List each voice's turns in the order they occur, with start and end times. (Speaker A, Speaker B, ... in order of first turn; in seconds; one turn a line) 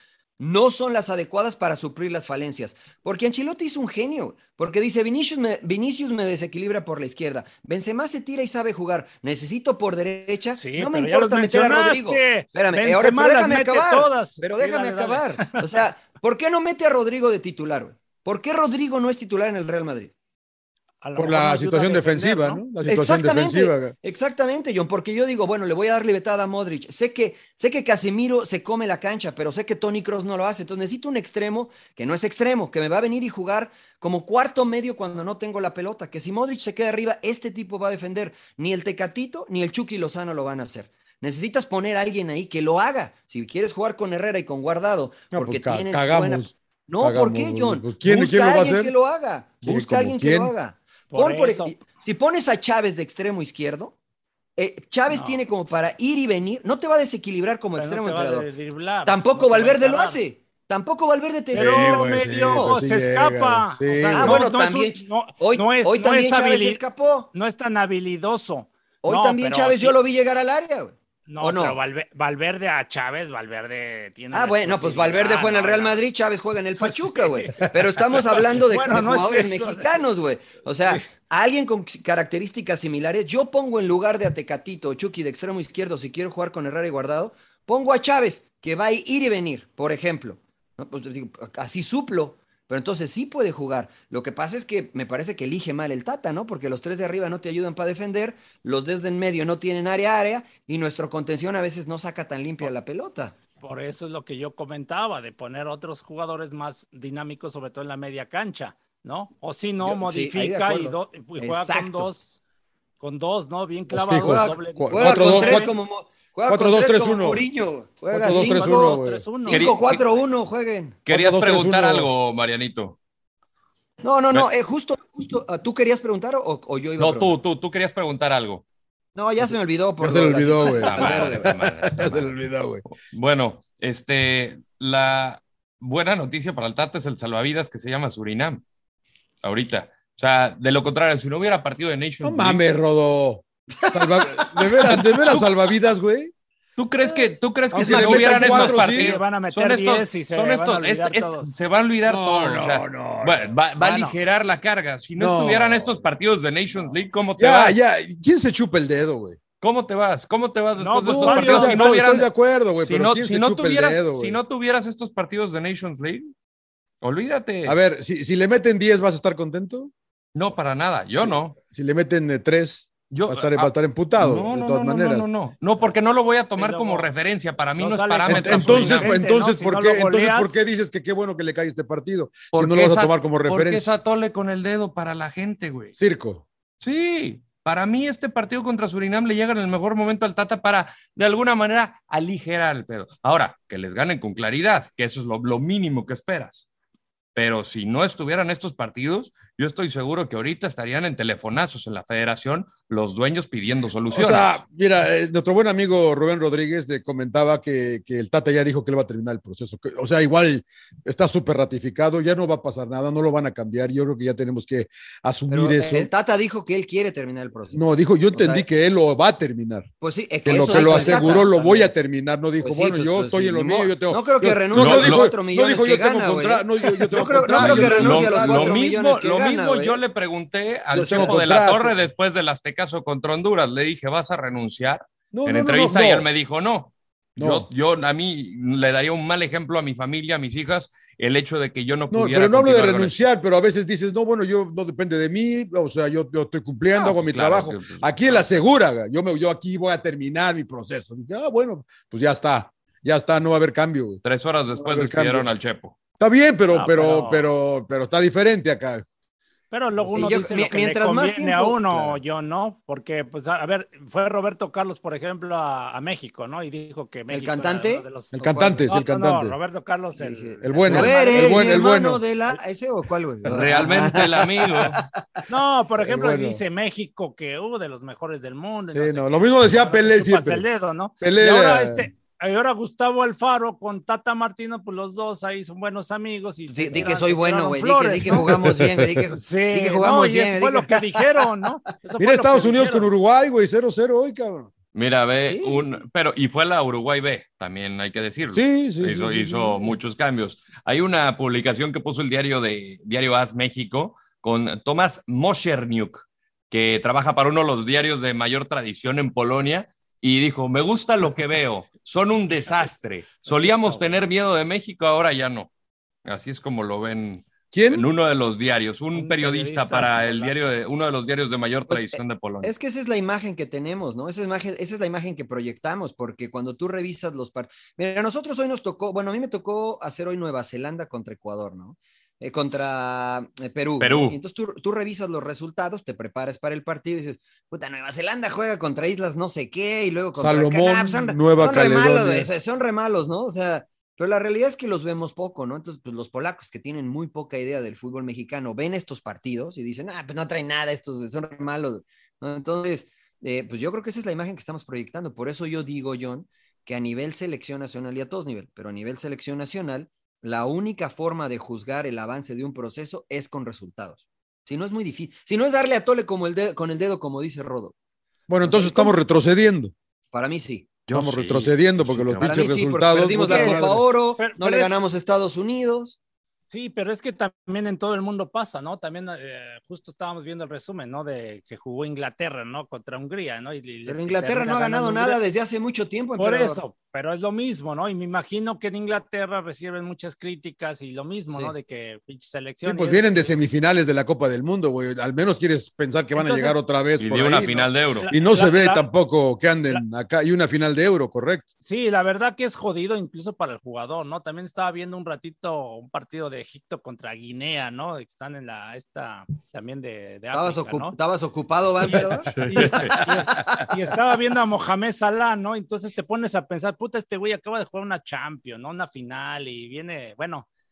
Speaker A: 0.4-20.1
Speaker B: 10.6-15.6
Speaker B: 21.0-22.6
Speaker C: 21.2-23.9
Speaker A: 22.9-54.0
Speaker C: 45.3-48.9
Speaker C: 49.6-50.5
Speaker B: 51.1-51.8
Speaker A: 54.6-58.5
Speaker B: 55.1-55.4
Speaker B: 57.8-60.2
Speaker A: 59.0-62.8
Speaker B: 61.5-66.8
Speaker C: 61.5-64.4
Speaker A: 64.1-67.3
Speaker B: 67.3-70.0
Speaker A: 69.0-71.8
Speaker B: 71.3-76.0
Speaker A: 74.3-103.3
Speaker B: 76.8-79.9
Speaker B: 103.6-112.4
Speaker A: 109.8-112.1
Speaker B: 113.0-115.7
Speaker C: 113.9-115.8
Speaker A: 114.1-118.9
Speaker C: 116.5-117.4
Speaker C: 118.1-119.3
Speaker B: 118.1-119.7
Speaker A: 119.5-121.0
Speaker D: 119.5-120.0
Speaker D: 121.1-123.0
Speaker C: 121.1-122.1
Speaker A: 124.0-127.3
Speaker D: 127.0-128.6
Speaker A: 129.2-131.5
Speaker C: 130.0-132.8
Speaker D: 130.6-132.3
Speaker D: 132.9-138.6
Speaker D: 139.4-142.6
Speaker C: 142.2-146.3
Speaker A: 144.0-145.0
Speaker D: 146.8-157.8
Speaker C: 147.7-149.2
Speaker B: 147.8-151.5
Speaker C: 152.1-153.6
Speaker B: 153.8-154.2
Speaker C: 155.2-156.1
Speaker C: 156.8-159.4
Speaker D: 159.6-166.3
Speaker B: 160.8-161.9
Speaker C: 161.1-164.4
Speaker D: 167.0-167.8
Speaker C: 167.7-169.9
Speaker D: 170.3-171.6
Speaker C: 171.2-175.3
Speaker D: 173.1-179.1
Speaker B: 176.6-177.1
Speaker B: 177.8-180.6
Speaker C: 178.3-183.9
Speaker D: 182.5-185.9
Speaker C: 186.0-186.4
Speaker D: 186.8-196.7
Speaker D: 197.3-204.6
Speaker C: 204.1-216.1
Speaker A: 215.5-218.7
Speaker C: 217.7-219.9
Speaker A: 220.0-221.9
Speaker C: 220.4-228.8
Speaker B: 220.8-221.4
Speaker A: 222.6-230.0
Speaker D: 224.7-225.3
Speaker D: 227.5-243.1
Speaker C: 230.9-232.0
Speaker A: 231.1-231.4
Speaker C: 235.3-236.3
Speaker C: 237.4-237.7
Speaker C: 242.1-254.2
Speaker D: 246.9-248.5
Speaker D: 254.2-256.0
Speaker C: 254.7-255.5
Speaker C: 256.2-259.1
Speaker B: 256.7-257.5
Speaker B: 259.7-271.8
Speaker C: 260.0-260.4
Speaker A: 260.1-262.2
Speaker A: 267.3-268.9
Speaker C: 268.3-269.6
Speaker A: 270.1-275.1
Speaker C: 270.6-272.6
Speaker D: 273.5-275.0
Speaker B: 275.5-288.5
Speaker C: 276.0-276.6
Speaker C: 278.9-280.7
Speaker C: 281.2-282.1
Speaker A: 286.7-291.4
Speaker C: 288.5-289.2
Speaker B: 289.4-293.1
Speaker C: 292.2-294.7
Speaker D: 294.9-315.7
Speaker A: 295.4-296.0
Speaker C: 298.5-299.9
Speaker B: 313.5-314.2
Speaker D: 316.3-322.7
Speaker C: 317.7-318.1
Speaker B: 319.1-320.6
Speaker A: 321.9-367.9
Speaker D: 334.0-334.4
Speaker C: 340.4-342.5
Speaker C: 368.5-369.9
Speaker A: 368.6-369.2
Speaker A: 370.3-371.0
Speaker D: 371.1-372.7
Speaker C: 371.1-374.1
Speaker A: 372.4-376.2
Speaker B: 373.3-373.9
Speaker B: 374.4-374.9
Speaker B: 376.7-385.4
Speaker A: 384.1-386.8
Speaker B: 386.4-393.5
Speaker A: 391.5-391.7
Speaker C: 392.8-401.7
Speaker B: 396.4-396.8
Speaker D: 397.2-398.3
Speaker B: 398.2-399.1
Speaker B: 401.9-411.2
Speaker A: 410.5-414.2
Speaker B: 412.1-420.7
Speaker D: 412.1-413.2